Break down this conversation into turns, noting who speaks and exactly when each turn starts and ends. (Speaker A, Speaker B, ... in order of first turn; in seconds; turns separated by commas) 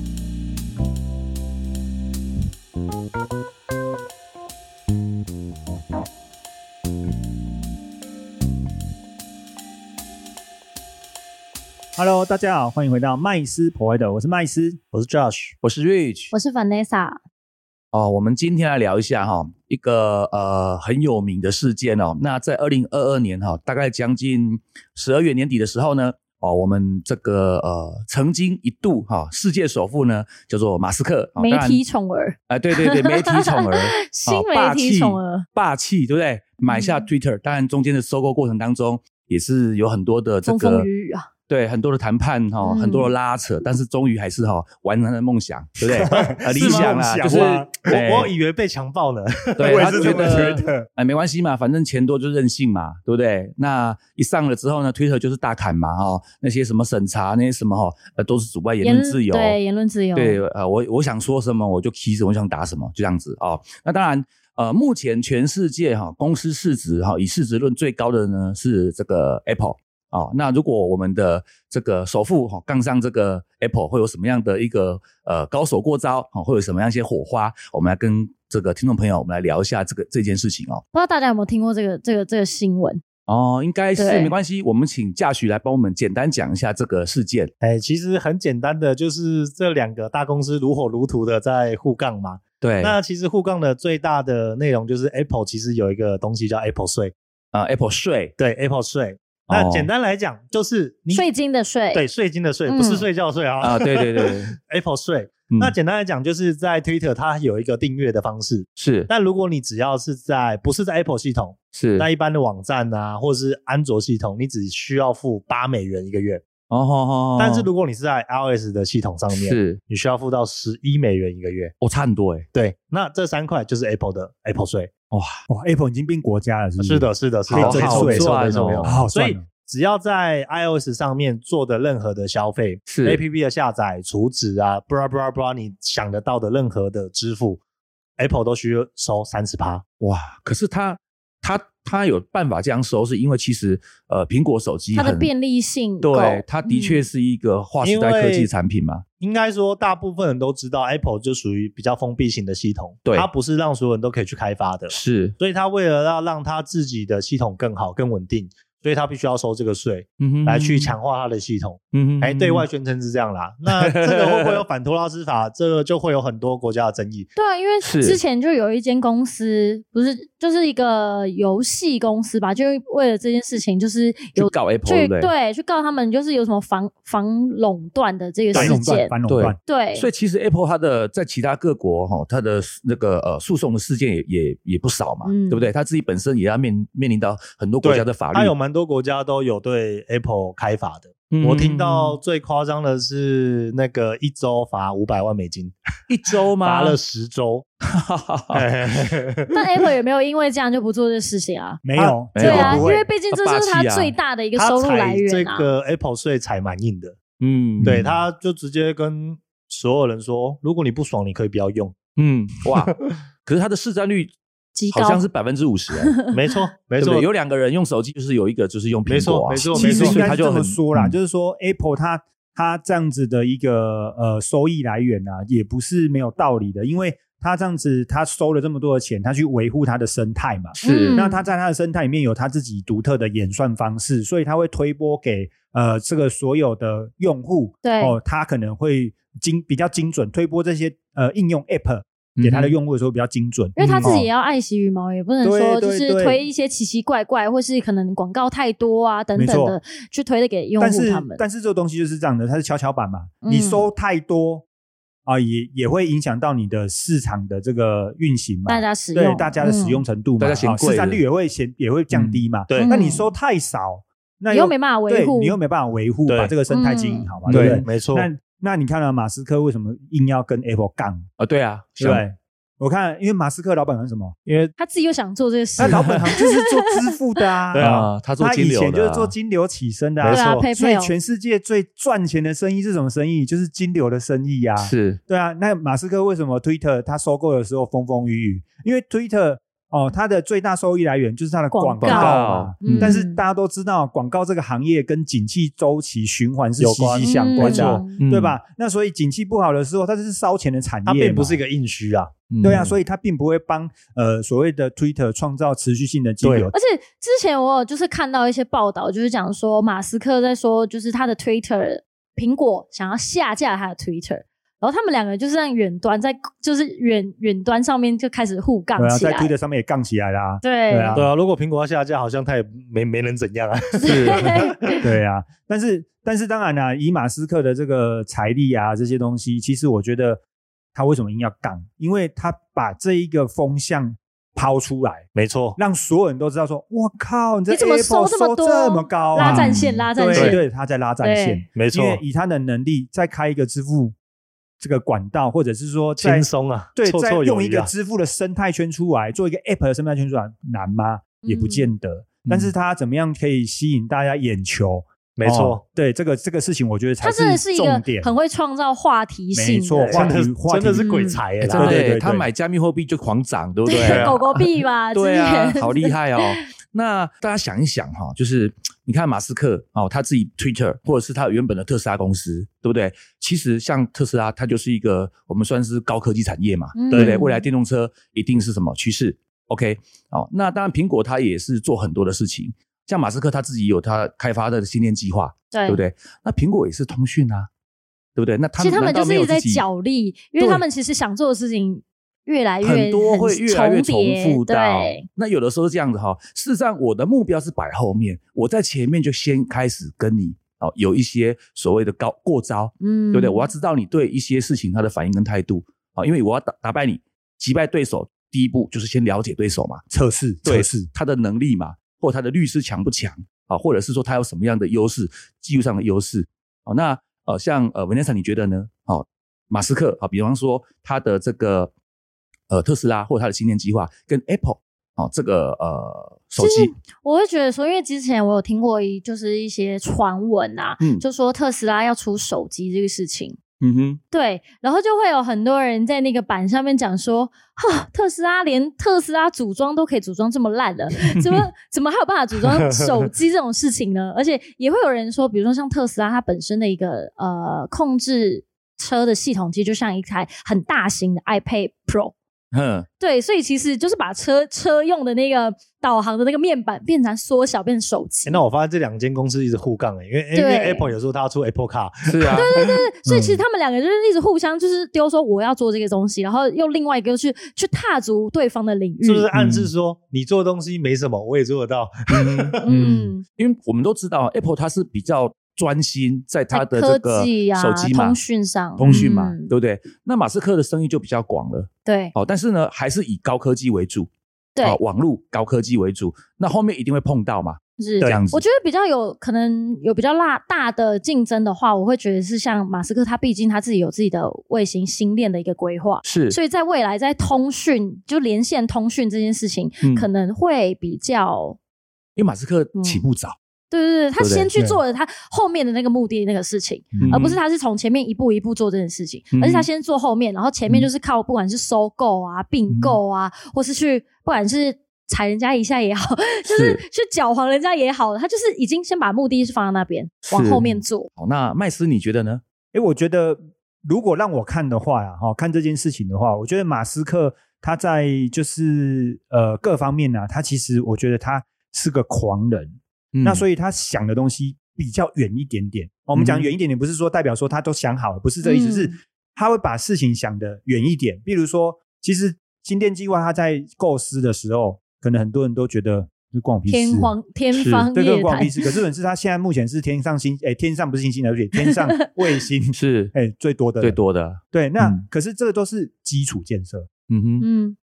Speaker A: 11.9-14.8, Speaker B: 14.9-15.5, Speaker C: 15.6-16.3, Speaker D: 16.3-17.2, Speaker C: 17.9-31.8, Speaker D: 31.4-35.5, Speaker C: 32.5-40.9, Speaker D: 36.7-37.0, Speaker D: 40.4-41.3, Speaker C: 41.5-48.3, Speaker D: 42.6-43.1, Speaker A: 45.9-47.9, Speaker B: 46.6-46.9, Speaker B: 47.9-50.4, Speaker C: 49.6-59.6, Speaker A: 49.6-50.9, Speaker D: 58.8-60.4, Speaker C: 60.1-80.8, Speaker D: 80.9-83.0, Speaker C: 83.3-87.5, Speaker D: 84.0-84.3, Speaker B: 87.6-97.1, Speaker C: 92.6-92.9, Speaker C: 97.5-98.3, Speaker B: 98.4-101.3, Speaker C: 99.5-99.9, Speaker D: 101.1-102.0, Speaker B: 101.9-116.4, Speaker D: 102.7-103.1, Speaker C: 103.6-104.6, Speaker C: 108.8-109.1, Speaker C: 111.7-112.1, Speaker C: 116.7-117.7, Speaker B: 117.4-121.7, Speaker C: 119.3-119.8, Speaker C: 121.8-122.5, Speaker B: 122.5-124.9, Speaker A: 125.5-128.3, Speaker B: 126.8-137.6, Speaker C: 127.5-129.0, Speaker A: 128.8-129.5, Speaker C: 132.9-133.2, Speaker B: 138.2-139.8, Speaker C: 140.0-145.3, Speaker D: 144.9-147.1, Speaker C: 146.0-149.0, Speaker B: 147.8-148.5, Speaker B: 149.2-167.3, Speaker C: 154.9-155.3, Speaker C: 160.2-160.9, Speaker C: 161.9-162.6, Speaker C: 163.7-164.6, Speaker D: 167.3-179.1, Speaker C: 167.8-168.2, Speaker C: 174.3-175.3, Speaker A: 178.5-179.6, Speaker C: 179.3-188.5, Speaker D: 179.7-180.1, Speaker D: 185.2-185.7, Speaker B: 187.8-195.8, Speaker C: 191.3-192.2, Speaker C: 196.1-197.0, Speaker B: 196.6-197.7, Speaker C: 197.9-198.7, Speaker B: 198.5-199.6, Speaker D: 199.5-201.8, Speaker A: 201.8-203.1, Speaker C: 202.3-204.1, Speaker D: 202.3-205.7, Speaker B: 204.6-207.2, Speaker C: 207.4-208.1, Speaker A: 207.8-208.1, Speaker B: 207.8-211.9, Speaker C: 212.2-214.3, Speaker D: 214.7-215.2, Speaker C: 214.9-216.1, Speaker D: 216.0-216.4, Speaker B: 216.3-217.2, Speaker C: 217.0-221.2, Speaker B: 219.1-220.3, Speaker A: 219.7-244.2, Speaker C: 230.8-231.2, Speaker D: 230.8-231.4, Speaker D: 237.8-238.2, Speaker C: 242.4-242.8, Speaker D: 243.8-251.4, Speaker B: 243.8-244.1, Speaker A: 245.4-246.4, Speaker A: 249.3-249.8, Speaker A: 250.8-254.6, Speaker D: 253.4-253.8, Speaker A: 255.2-271.2, Speaker D: 258.7-260.0, Speaker C: 260.4-261.2, Speaker C: 262.1-262.4, Speaker B: 262.7-263.0, Speaker D: 262.8-263.3, Speaker D: 264.5-265.6, Speaker B: 266.3-266.5, Speaker D: 266.7-267.3, Speaker C: 267.4-267.8, Speaker B: 267.5-268.3, Speaker C: 271.4-272.2, Speaker A: 272.0-274.4, Speaker B: 274.4-274.7, Speaker D: 274.8-276.9, Speaker A: 275.8-301.6, Speaker C: 275.8-276.0, Speaker B: 277.7-278.1, Speaker C: 277.8-279.3, Speaker B: 280.2-280.7, Speaker D: 280.2-281.1, Speaker C: 284.8-285.2, Speaker D: 291.7-293.4, Speaker C: 292.0-293.1, Speaker B: 296.8-298.0, Speaker D: 297.2-298.1, Speaker C: 297.6-298.6, Speaker B: 301.0-302.8, Speaker C: 302.5-302.9, Speaker A: 302.6-306.7, Speaker B: 306.4-306.7, Speaker D: 306.7-319.5, Speaker A: 319.0-321.3, Speaker D: 320.6-321.3, Speaker B: 321.1-325.0, Speaker D: 324.0-325.0, Speaker C: 324.1-324.6, Speaker A: 325.0-330.4, Speaker A: 330.9-344.1, Speaker B: 335.3-335.8, Speaker D: 337.7-340.6, Speaker C: 339.4-340.0, Speaker B: 339.4-340.6, Speaker D: 341.2-341.7, Speaker B: 341.7-342.2, Speaker A: 344.8-358.3, Speaker B: 346.2-347.9, Speaker D: 351.4-351.9, Speaker C: 352.4-352.7, Speaker B: 355.4-355.8, Speaker D: 357.2-360.4, Speaker A: 359.5-361.1, Speaker B: 360.0-362.0, Speaker D: 360.9-361.4, Speaker C: 361.6-387.7, Speaker A: 361.7-362.4, Speaker D: 363.9-366.4, Speaker B: 364.0-364.4, Speaker D: 376.9-377.6, Speaker D: 385.7-386.0, Speaker C: 388.4-389.9, Speaker D: 388.8-395.2, Speaker C: 390.6-390.8, Speaker C: 392.8-410.0, Speaker D: 403.0-403.7, Speaker A: 410.1-411.1, Speaker C: 410.6-421.9, Speaker C: 422.7-426.9, Speaker D: 426.6-433.6, Speaker C: 433.8-434.2, Speaker D: 434.3-452.3, Speaker C: 452.7-453.1, Speaker D: 453.2-458.6, Speaker B: 458.4-462.7, Speaker D: 460.5-461.1, Speaker C: 462.2-462.8, Speaker D: 462.5-469.5, Speaker A: 463.3-463.6, Speaker B: 469.2-472.8, Speaker C: 469.5-469.9, Speaker C: 472.3-478.4, Speaker D: 472.8-473.4, Speaker A: 472.9-473.3, Speaker D: 476.7-479.7, Speaker C: 479.0-484.3, Speaker D: 482.1-482.3, Speaker C: 484.8-488.6, Speaker D: 488.0-501.8, Speaker C: 496.2-496.6, Speaker C: 502.4-503.6, Speaker D: 502.9-503.2, Speaker D: 503.9-521.3, Speaker C: 504.4-504.7, Speaker C: 507.2-507.6, Speaker C: 509.5-509.9, Speaker C: 512.9-513.2, Speaker C: 516.7-517.0, Speaker C: 520.5-522.6, Speaker A: 522.9-547.3, Speaker C: 533.3-533.6, Speaker C: 536.4-536.7, Speaker D: 538.6-539.1, Speaker D: 546.8-548.9, Speaker C: 547.7-548.1, Speaker A: 548.1-554.2, Speaker C: 552.9-553.3, Speaker C: 554.0-555.2, Speaker A: 554.7-557.1, Speaker C: 557.3-557.7, Speaker D: 557.6-558.0